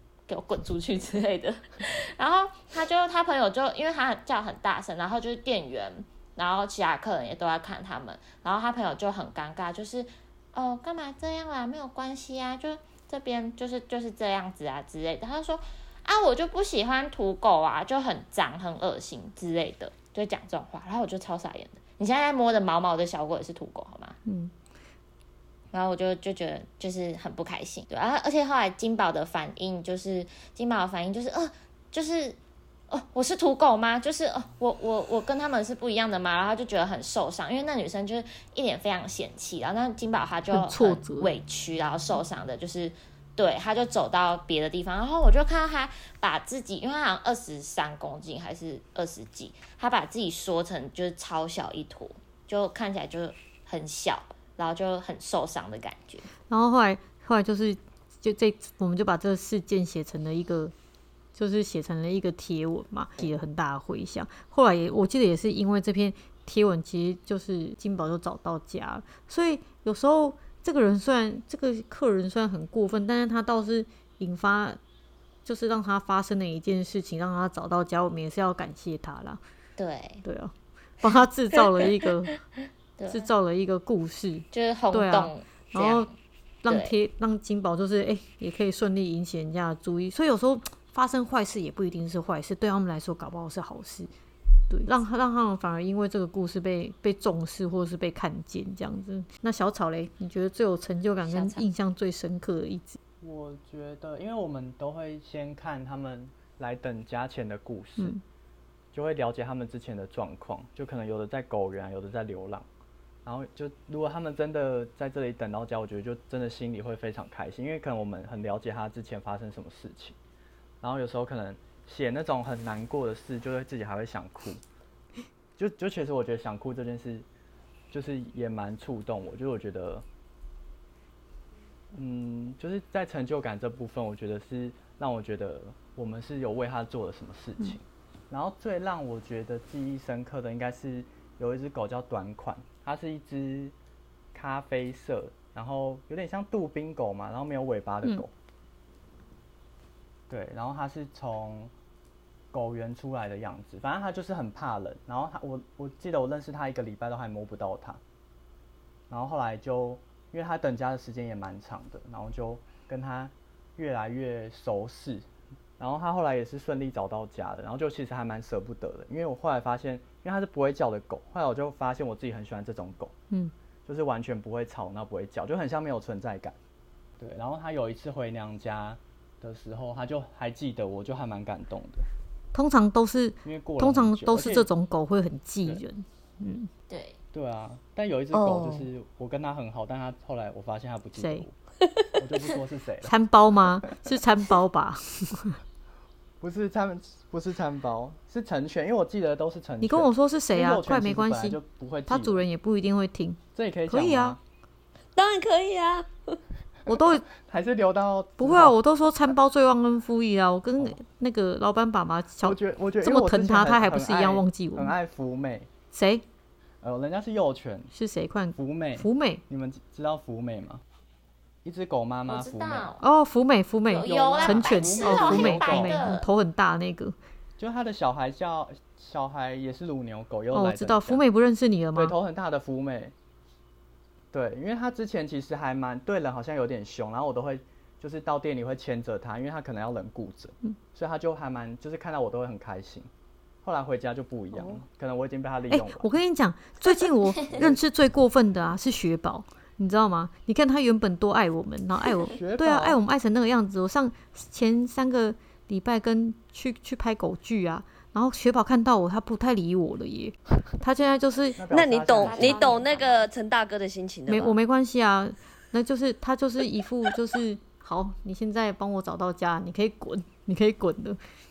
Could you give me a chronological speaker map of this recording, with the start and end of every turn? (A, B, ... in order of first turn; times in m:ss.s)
0:00.3-0:24.2 A
0:24.3-0:24.5 B
0:25.7-0:32.4 A
0:32.9-0:56.3 A
0:40.5-0:41.4 B
0:56.5-1:00.7 B
1:01.4-1:14.8 B
1:15.4-1:19.4 B
1:19.8-1:20.2 A
1:20.2-1:22.4 B
1:23.0-1:23.3 A
1:23.1-1:26.1 B
1:24.5-1:26.1 A
1:26.6-1:34.1 B
1:26.7-1:26.9 A
1:34.7-1:43.0 B
1:41.3-1:41.6 A
1:43.2-1:48.1 C
1:48.9-1:52.7 C
1:53.2-2:00.2 C
2:00.8-2:04.6 C
2:05.6-2:07.3 C
2:07.9-2:10.0 C
2:11.9-2:23.7 C
2:24.3-2:28.3 C
2:30.3-2:31.7 C
2:32.5-2:38.0 C
2:39.1-2:45.3 C
2:45.8-2:53.1 C
2:53.9-2:56.6 C
2:57.2-3:02.1 C
3:02.5-3:06.7 B
3:03.4-3:04.7 C
3:06.9-3:07.2 A
3:07.3-3:11.5 C
3:08.3-3:08.9 D
3:11.2-3:11.5 B
3:12.2-3:13.1 C
3:13.0-3:15.6 B
3:16.4-3:22.4 C
3:19.8-3:24.4 B
3:23.5-3:24.4 C
3:25.2-3:26.4 D
3:26.9-3:27.2 B
3:27.4-3:28.8 C
3:28.4-3:35.0 B
3:32.4-3:35.7 C
3:35.9-3:36.2 B
3:36.8-3:37.9 C
3:37.9-3:39.4 B
3:38.6-3:40.8 C
3:41.6-3:42.9 C
3:42.3-3:43.0 A
3:43.0-3:47.2 B
3:43.9-3:46.3 A
3:44.1-3:46.1 C
3:47.6-3:51.2 C
3:50.5-3:52.2 B
3:52.0-3:53.1 C
3:54.3-4:03.1 C
4:03.6-4:06.1 C
4:04.5-4:04.8 B
4:05.7-4:21.6 B
4:07.5-4:07.8 C
4:12.2-4:13.0 C
4:21.6-4:22.8 C
4:21.7-4:24.5 D
4:22.1-4:23.3 A
4:24.3-4:31.2 B